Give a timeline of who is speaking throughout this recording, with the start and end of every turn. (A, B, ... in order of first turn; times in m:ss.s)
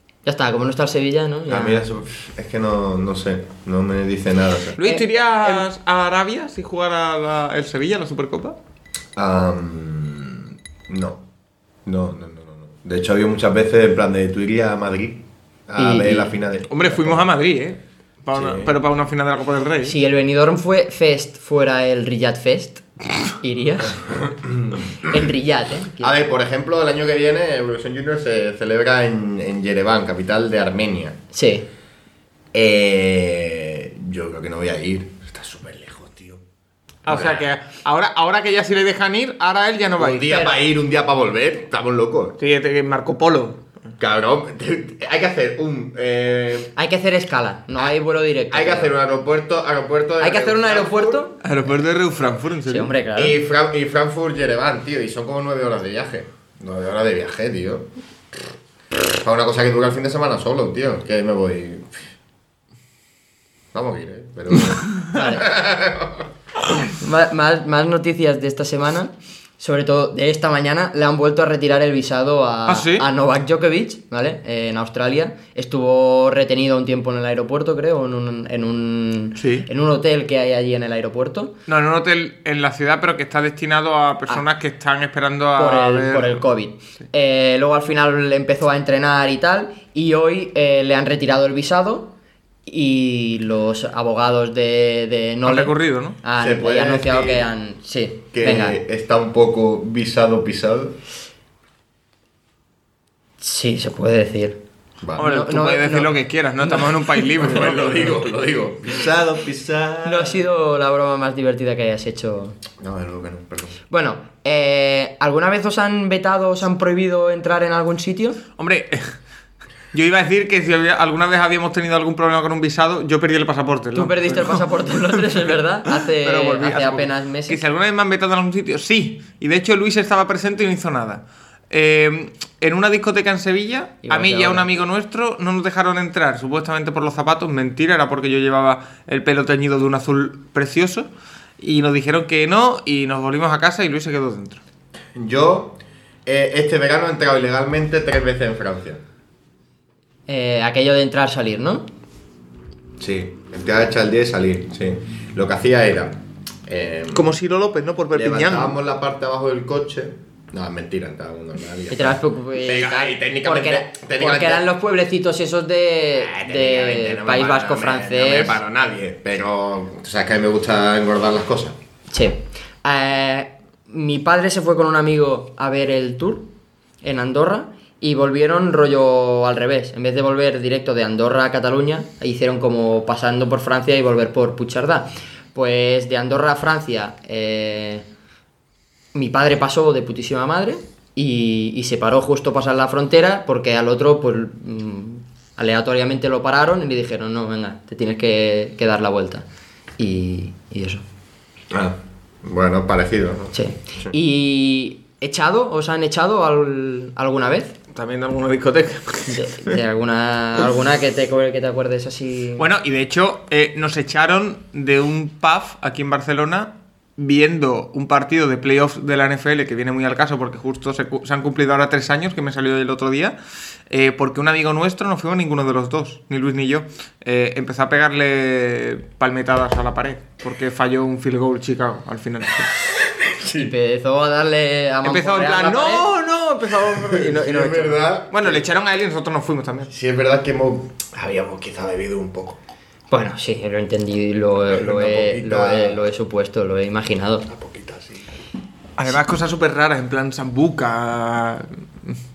0:00.2-0:01.9 A
0:01.5-0:04.8 B
0:04.8-0:08.6 C
0:04.8-0:05.7 A
0:09.2-0:11.2 B
0:11.9-0:17.3 B
0:15.8-0:16.4 A
0:16.7-0:20.0 C
0:18.3-0:18.8 B
0:19.8-0:24.1 A
0:24.2-0:25.2 B
0:25.0-0:26.2 A
0:26.0-0:31.2 B
0:31.3-0:31.7 A
0:32.5-0:36.4 B
0:37.1-0:37.5 B
0:37.1-0:40.3 C
0:40.0-0:42.4 B
0:40.3-0:40.6 A
0:42.4-0:43.6 C
0:44.0-0:46.7 B
0:46.8-0:48.9 A
0:48.5-0:51.2 B
0:50.2-0:51.4 A
0:51.4-0:52.9 C
0:52.7-0:53.4 A
0:53.2-0:57.9 B
0:59.0-1:02.0 B
1:03.7-1:06.3 B
1:05.1-1:05.5 A
1:06.9-1:21.6 A
1:12.7-1:13.1 C
1:19.4-1:19.7 C
1:21.7-1:26.4 C
1:25.6-1:32.2 A
1:32.7-1:38.8 A
1:35.4-1:36.2 C
1:36.4-1:37.5 B
1:38.3-1:41.0 B
1:43.4-1:44.6 A
1:45.2-1:48.2 C
1:45.2-1:46.1 A
1:47.4-1:50.5 B
1:50.0-1:52.6 A
1:52.8-1:53.8 B
1:53.9-1:58.4 A
1:58.6-1:59.1 C
1:59.9-2:24.6 C
2:04.0-2:07.6 A
2:14.0-2:14.7 A
2:25.2-2:29.0 B
2:30.3-2:31.9 A
2:33.0-2:37.3 B
2:37.1-2:38.8 C
2:38.1-2:44.7 B
2:41.9-2:48.6 A
2:46.2-2:51.8 B
2:52.1-2:56.5 A
2:57.0-3:08.1 A
3:09.1-3:19.4 A
3:20.0-3:21.0 A
3:21.7-3:24.1 B
3:23.5-3:27.7 A
3:27.9-3:29.4 C
3:29.3-3:32.7 A
3:32.6-3:43.4 C
3:43.9-3:52.7 C
3:53.2-3:53.7 B
3:53.6-3:56.0 A
3:55.0-3:59.9 C
3:56.9-3:58.6 B
3:59.9-4:02.6 B
4:03.1-4:07.5 A
4:04.7-4:06.0 B
4:07.5-4:08.2 B
4:09.0-4:12.2 C